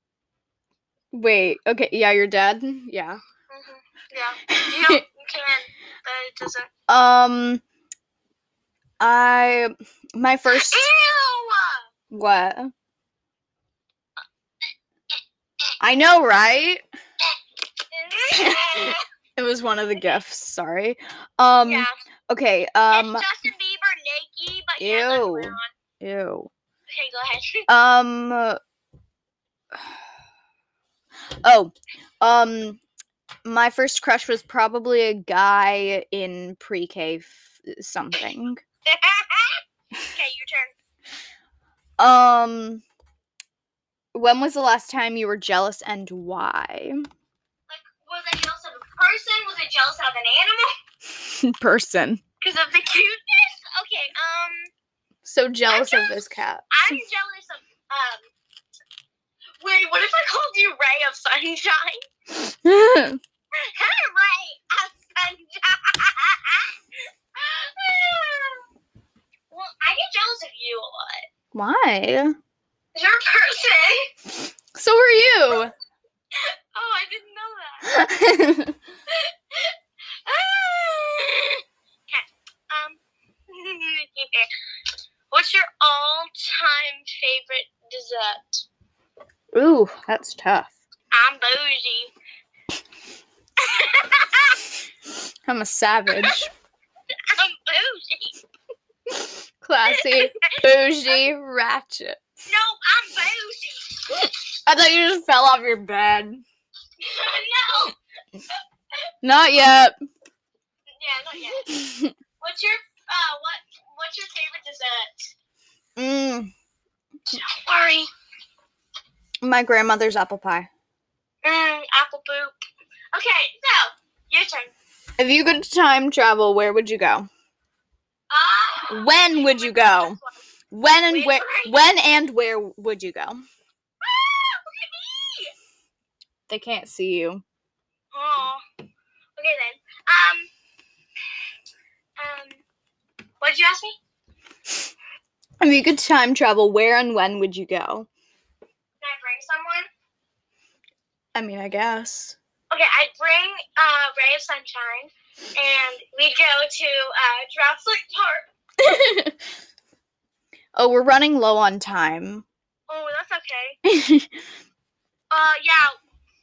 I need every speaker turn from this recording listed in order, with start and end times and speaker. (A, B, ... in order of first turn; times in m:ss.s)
0:01.1-0:03.2 A
0:03.5-0:06.7 B
0:04.5-0:05.0 A
0:06.9-0:07.6 A
0:09.0-0:10.9 A
0:10.5-0:11.9 B
0:12.1-0:12.7 A
0:15.8-0:16.8 A
0:17.9-0:19.0 B
0:18.3-0:23.3 A
0:21.6-0:22.0 B
0:22.9-0:25.7 B
0:24.8-0:26.5 A
0:26.9-0:27.7 B
0:27.7-0:28.6 A
0:31.4-0:32.8 A
0:33.4-0:38.6 A
0:38.9-0:40.8 B
0:42.0-0:42.8 A
0:44.1-0:47.0 A
0:47.7-0:50.7 B
0:51.2-0:52.2 A
0:52.4-0:54.7 B
0:55.2-0:57.0 A
0:55.7-0:58.3 B
0:59.6-1:02.1 B
1:02.4-1:03.2 A
1:03.6-1:06.7 B
1:07.4-1:08.6 B
1:09.5-1:11.3 B
1:11.5-1:12.4 A
1:13.0-1:14.1 B
1:14.7-1:15.7 A
1:16.4-1:18.1 B
1:17.8-1:18.8 A
1:19.1-1:24.5 B
1:25.3-1:28.6 B
1:29.5-1:30.7 A
1:31.1-1:32.1 B
1:33.6-1:34.7 B
1:35.5-1:36.5 A
1:37.3-1:38.4 B
1:39.3-1:42.2 A
1:39.9-1:41.2 B
1:42.4-1:44.4 B
1:44.7-1:46.4 A
1:47.0-1:48.0 B
1:49.2-1:50.0 A
1:51.0-1:51.7 B
1:51.6-1:52.1 A
1:52.4-1:55.3 B
1:56.0-1:56.5 A
1:57.3-1:58.1 B
1:59.4-2:00.7 A
2:01.4-2:02.5 B
2:03.1-2:04.7 B
2:05.2-2:07.3 A
2:08.3-2:10.4 B
2:08.9-2:10.2 A
2:10.7-2:13.4 A
2:11.1-2:11.8 B
2:14.0-2:15.5 B
2:16.5-2:17.4 A
2:18.1-2:18.6 B
2:19.4-2:20.5 B
2:22.2-2:22.6 B
2:23.4-2:24.0 B
2:25.6-2:28.1 A
2:29.0-2:29.9 B
2:31.4-2:32.4 A
2:32.7-2:38.5 B
2:38.8-2:39.4 A
2:40.8-2:42.5 A
2:42.9-2:43.8 B
2:43.8-2:44.3 A
2:45.3-2:46.0 B